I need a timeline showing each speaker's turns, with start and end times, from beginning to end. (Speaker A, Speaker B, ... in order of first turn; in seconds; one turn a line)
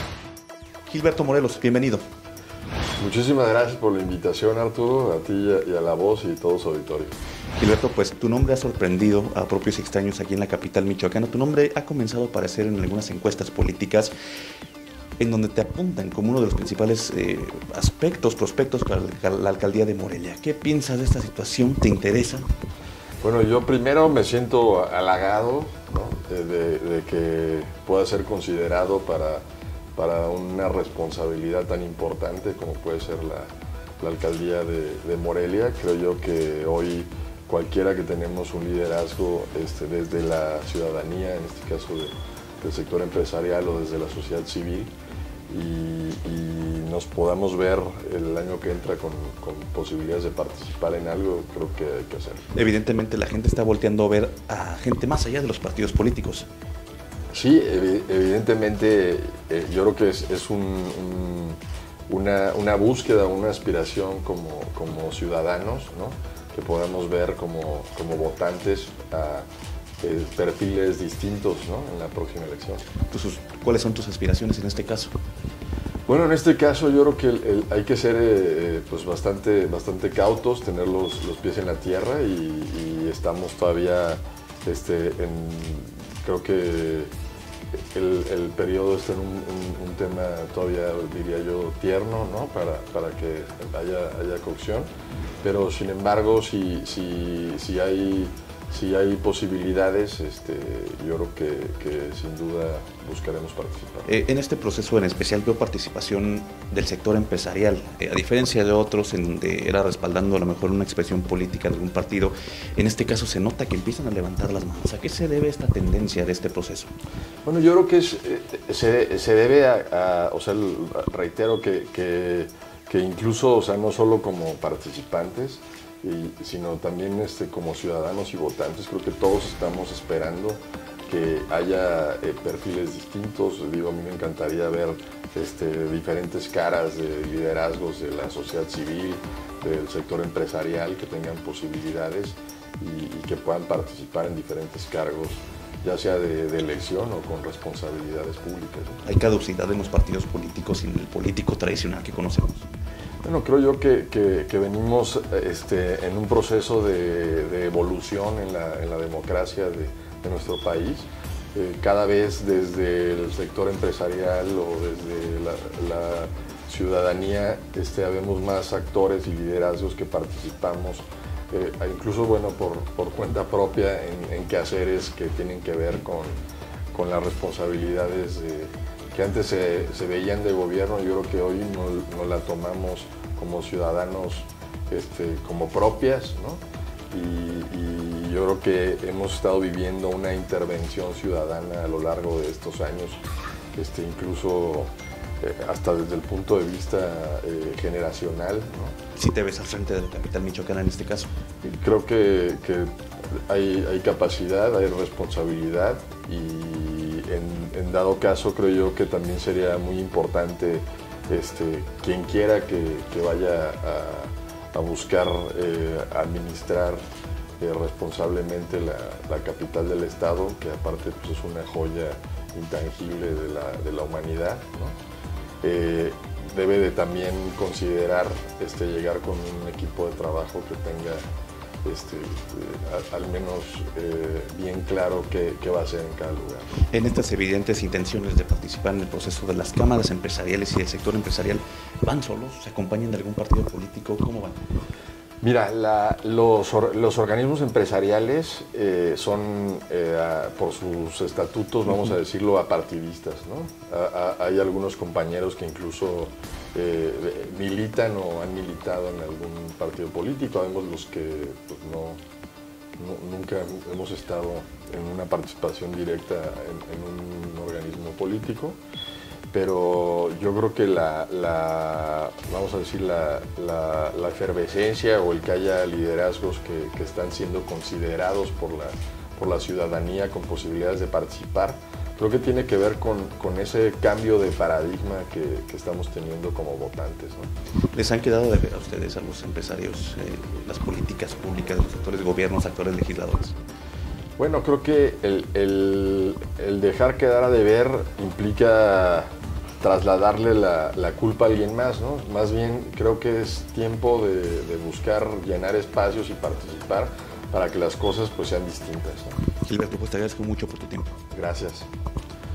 Speaker A: 0.9-2.0
Speaker B: 3.0-7.1
Speaker A: 7.6-14.1
Speaker A: 15.2-22.4
Speaker B: 23.2-29.4
Speaker B: 29.9-44.9
Speaker B: 45.5-52.4
Speaker A: 52.5-56.5
Speaker B: 57.3-61.6
Speaker B: 62.1-69.5
Speaker B: 70.0-72.8
Speaker A: 73.1-75.1
Speaker B: 76.1-87.1
Speaker B: 87.9-94.9
Speaker B: 95.4-104.1
Speaker A: 104.1-116.9
Speaker B: 117.4-149.0
Speaker A: 149.0-152.7
Speaker B: 153.2-176.4
Speaker B: 176.9-193.2
Speaker B: 193.8-198.9
Speaker A: 199.1-201.3
Speaker B: 201.6-202.9
Speaker B: 203.5-217.0
Speaker B: 217.6-224.9
Speaker B: 225.6-231.2
Speaker B: 231.8-236.7
Speaker A: 236.9-244.6
Speaker B: 245.4-262.2
Speaker B: 263.0-268.8
Speaker B: 269.5-287.5
Speaker A: 287.9-293.5
Speaker B: 294.4-299.3
Speaker B: 299.8-309.4
Speaker A: 309.6-311.1
Speaker B: 311.3-311.9